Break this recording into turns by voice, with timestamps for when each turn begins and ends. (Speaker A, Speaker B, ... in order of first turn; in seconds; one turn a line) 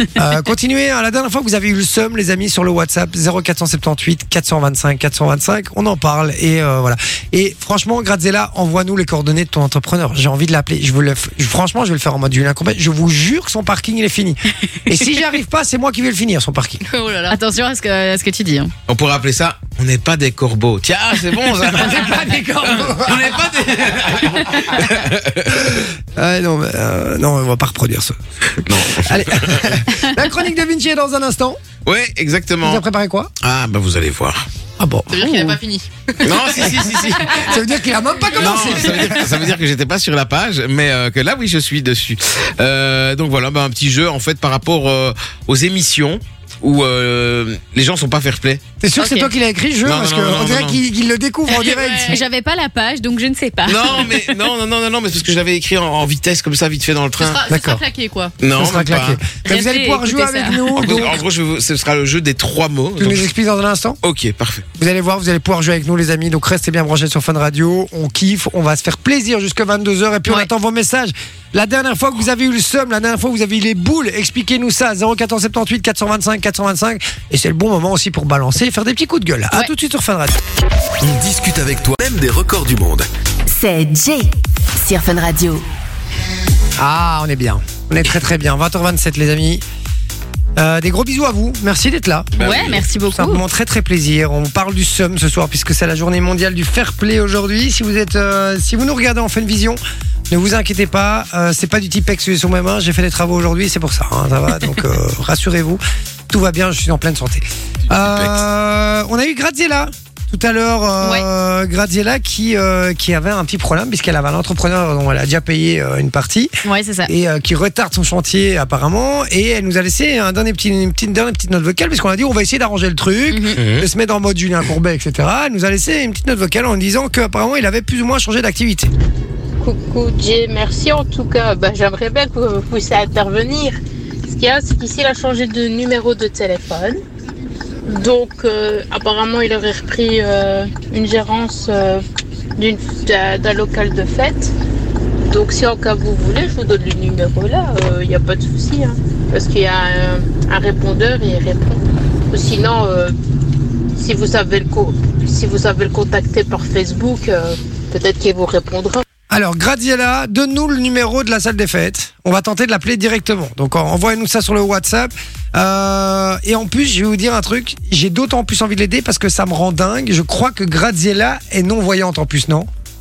Speaker A: 0.1-16.8
Speaker B: 16.8-17.4
Speaker C: 17.3-18.7
Speaker D: 18.9-22.2
Speaker A: 21.6-23.5
Speaker D: 22.8-25.7
Speaker A: 25.5-31.6
Speaker D: 28.6-29.8
Speaker D: 31.8-32.8
Speaker A: 32.6-33.3
Speaker D: 33.4-34.4
Speaker A: 34.8-35.6
Speaker B: 35.1-36.6
Speaker D: 36.2-37.5
Speaker A: 37.4-39.5
Speaker D: 38.4-48.6
Speaker A: 48.8-52.2
Speaker C: 49.0-49.3
Speaker D: 49.8-50.8
Speaker B: 51.5-52.2
Speaker C: 52.1-54.2
Speaker D: 53.6-57.4
Speaker B: 57.2-58.4
Speaker A: 57.5-57.8
Speaker D: 58.4-59.2
Speaker A: 58.5-61.2
Speaker C: 59.4-60.9
Speaker D: 60.8-63.2
Speaker A: 63.0-64.0
Speaker D: 64.0-64.7
Speaker A: 64.8-80.4
Speaker E: 81.0-83.1
Speaker F: 83.5-85.6
Speaker A: 86.8-89.6
Speaker A: 90.5-92.3
Speaker D: 92.3-92.9
Speaker C: 92.4-93.4
Speaker A: 93.1-116.5
Speaker D: 108.0-108.4
Speaker C: 111.0-111.3
Speaker C: 116.6-117.1
Speaker A: 117.0-128.9
Speaker C: 123.3-123.6
Speaker D: 123.5-123.9
Speaker G: 129.6-137.0
Speaker G: 137.8-142.0
Speaker G: 142.6-144.5
Speaker G: 145.2-153.1
Speaker G: 153.9-159.0
Speaker A: 159.3-172.7